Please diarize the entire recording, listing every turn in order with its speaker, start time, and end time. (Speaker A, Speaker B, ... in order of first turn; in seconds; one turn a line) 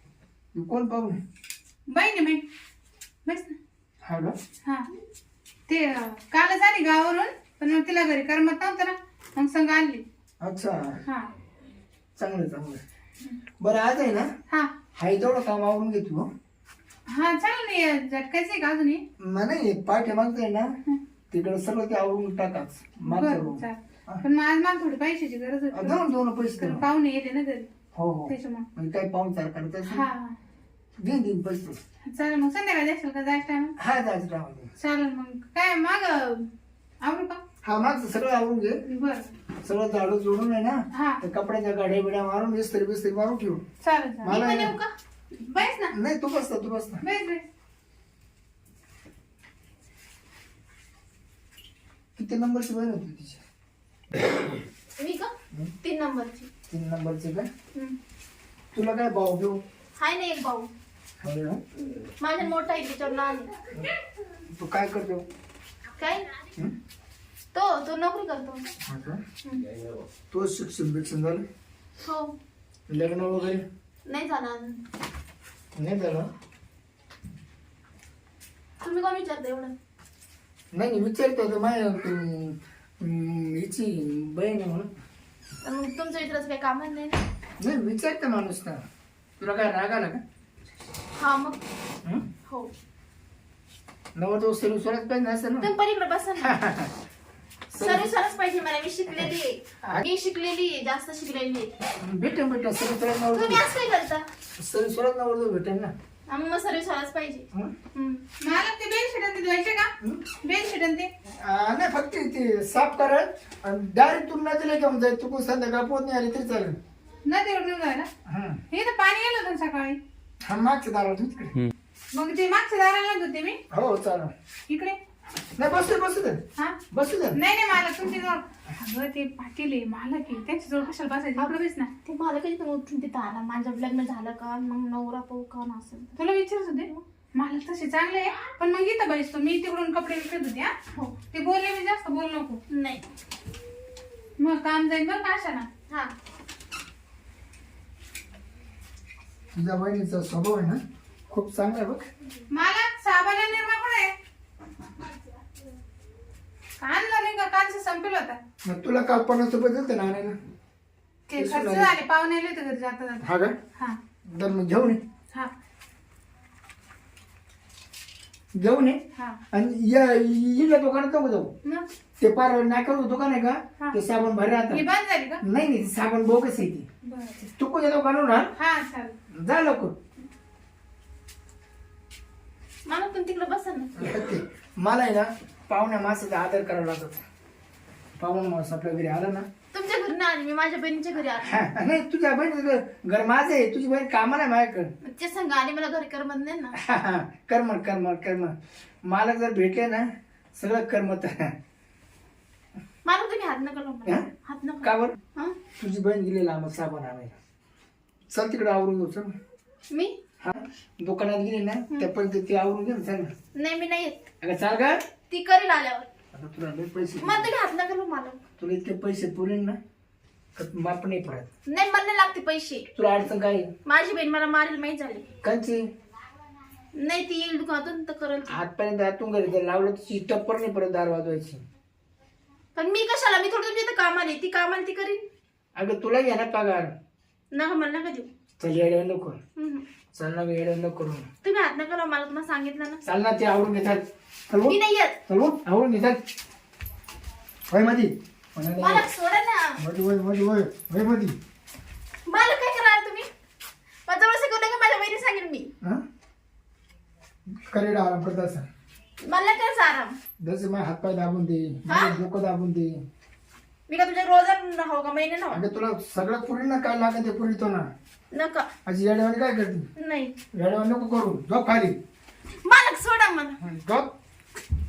Speaker A: 0.5-1.2
Speaker B: 1.9-2.4
Speaker B: 3.2-3.6
Speaker A: 4.0-4.4
Speaker B: 5.7-10.0
Speaker A: 10.4-11.0
Speaker A: 12.2-12.8
Speaker A: 13.6-14.3
Speaker A: 15.0-16.3
Speaker B: 17.1-19.0
Speaker A: 19.2-20.7
Speaker A: 21.3-24.2
Speaker B: 23.1-26.0
Speaker A: 25.7-26.9
Speaker B: 26.6-27.7
Speaker A: 27.9-30.1
Speaker B: 28.3-28.7
Speaker B: 29.9-30.4
Speaker A: 31.0-31.8
Speaker B: 32.1-33.8
Speaker A: 33.8-34.7
Speaker B: 34.8-36.5
Speaker B: 37.0-37.4
Speaker A: 37.6-38.8
Speaker B: 38.9-39.3
Speaker A: 39.6-43.6
Speaker B: 40.9-41.2
Speaker B: 43.8-44.4
Speaker A: 44.2-44.8
Speaker C: 44.2-44.9
Speaker B: 45.3-46.0
Speaker A: 45.9-47.0
Speaker B: 47.0-47.5
Speaker A: 52.2-53.4
Speaker C: 55.0-55.3
Speaker C: 55.8-56.5
Speaker A: 56.7-57.5
Speaker A: 58.7-59.6
Speaker C: 60.0-60.7
Speaker A: 61.2-61.6
Speaker C: 62.2-63.5
Speaker A: 64.5-65.3
Speaker C: 66.0-66.3
Speaker C: 67.5-68.7
Speaker A: 68.8-69.2
Speaker A: 70.3-71.4
Speaker C: 72.0-72.3
Speaker A: 72.9-73.7
Speaker C: 74.1-74.8
Speaker A: 75.8-76.3
Speaker C: 78.8-79.7
Speaker A: 80.7-84.9
Speaker C: 85.6-87.2
Speaker A: 87.6-88.8
Speaker A: 89.4-90.2
Speaker C: 91.2-91.6
Speaker A: 94.2-95.7
Speaker C: 95.6-96.5
Speaker A: 96.4-96.9
Speaker A: 97.7-98.1
Speaker C: 97.8-101.7
Speaker A: 102.0-103.7
Speaker C: 103.3-104.3
Speaker A: 104.6-105.9
Speaker C: 106.3-108.2
Speaker B: 108.4-109.9
Speaker B: 110.4-111.1
Speaker A: 111.4-116.8
Speaker B: 117.3-118.1
Speaker A: 118.3-118.6
Speaker B: 118.7-120.0
Speaker A: 120.5-121.7
Speaker B: 122.1-123.6
Speaker A: 123.7-124.3
Speaker B: 124.7-125.0
Speaker A: 125.6-127.4
Speaker B: 127.3-131.9
Speaker C: 131.4-136.2
Speaker B: 136.2-140.8
Speaker B: 141.3-142.6
Speaker C: 142.7-143.1
Speaker B: 144.4-146.0
Speaker A: 149.6-152.1
Speaker B: 152.5-154.1
Speaker B: 156.8-158.4
Speaker A: 158.6-160.4
Speaker B: 161.3-164.0
Speaker A: 161.3-161.9
Speaker A: 163.2-163.6
Speaker A: 164.3-165.0
Speaker A: 168.5-169.0
Speaker A: 169.5-171.5
Speaker A: 172.2-174.9
Speaker B: 174.7-175.4
Speaker A: 175.4-176.9
Speaker B: 177.0-177.4
Speaker A: 177.5-178.5
Speaker B: 178.6-179.2
Speaker A: 179.3-179.9
Speaker C: 182.9-183.9
Speaker A: 184.0-187.2
Speaker A: 188.2-189.5
Speaker C: 189.7-191.5
Speaker A: 191.4-194.9
Speaker C: 195.0-196.8
Speaker A: 196.8-201.5
Speaker C: 203.1-205.6
Speaker A: 204.8-205.2
Speaker A: 205.8-207.4
Speaker A: 208.3-209.3
Speaker C: 209.9-210.2
Speaker A: 210.4-213.3
Speaker C: 213.6-214.2
Speaker A: 214.4-215.0
Speaker C: 215.3-216.1
Speaker A: 216.3-217.5
Speaker C: 217.2-218.4
Speaker A: 218.6-219.8
Speaker A: 220.6-221.5
Speaker C: 221.7-222.9
Speaker A: 222.9-223.7
Speaker C: 223.8-225.3
Speaker A: 225.4-225.8
Speaker C: 226.9-228.6
Speaker A: 228.5-231.6
Speaker C: 232.8-235.3
Speaker A: 235.8-236.9
Speaker C: 237.5-238.3
Speaker A: 238.6-239.4
Speaker C: 239.6-239.8
Speaker A: 240.2-241.3
Speaker C: 241.4-243.0
Speaker A: 243.1-246.2
Speaker C: 244.7-245.2
Speaker A: 247.7-249.1
Speaker C: 248.8-249.8
Speaker A: 249.8-251.4
Speaker C: 252.3-253.3
Speaker C: 254.1-255.7
Speaker A: 257.5-258.7
Speaker C: 259.2-260.2
Speaker A: 260.4-262.9
Speaker C: 261.9-262.2
Speaker C: 263.9-265.7
Speaker A: 265.5-267.9
Speaker C: 268.3-268.7
Speaker A: 268.9-269.9
Speaker C: 270.0-270.4
Speaker A: 270.5-272.0
Speaker C: 272.6-273.6
Speaker A: 273.6-274.1